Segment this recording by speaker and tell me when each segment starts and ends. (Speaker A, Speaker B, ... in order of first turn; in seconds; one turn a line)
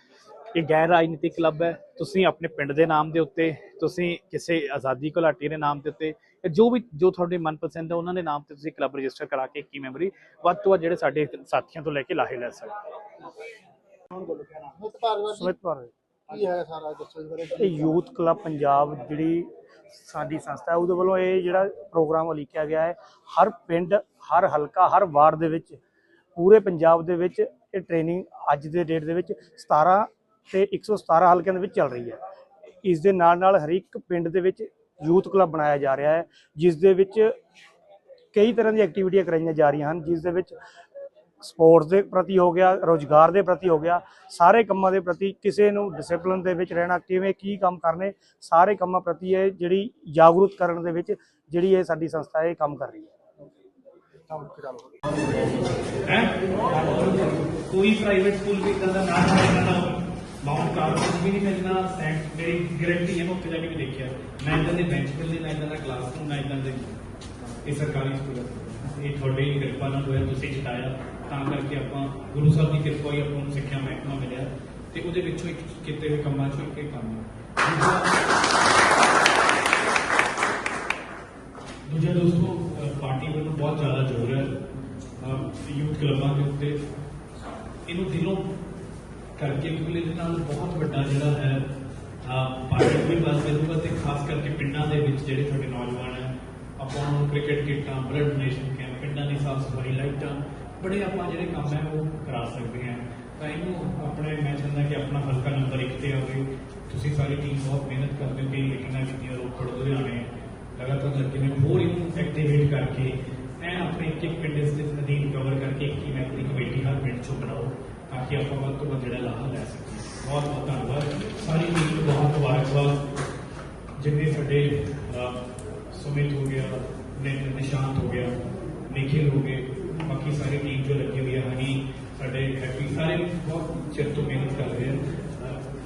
Speaker A: 0.5-12.8
Speaker B: 14.1-15.5
Speaker C: 15.3-15.9
Speaker B: 16.3-17.9
Speaker C: 17.6-25.8
Speaker C: 26.4-32.2
Speaker C: 32.8-37.3
Speaker C: 38.3-40.6
Speaker C: 41.4-53.1
Speaker B: 54.3-55.4
Speaker A: 56.0-67.0
Speaker A: 67.6-78.2
Speaker A: 81.9-84.6
Speaker A: 85.2-86.8
Speaker A: 87.9-88.5
Speaker A: 89.4-91.7
Speaker A: 92.2-123.0
Speaker A: 124.0-128.4
Speaker A: 128.9-135.6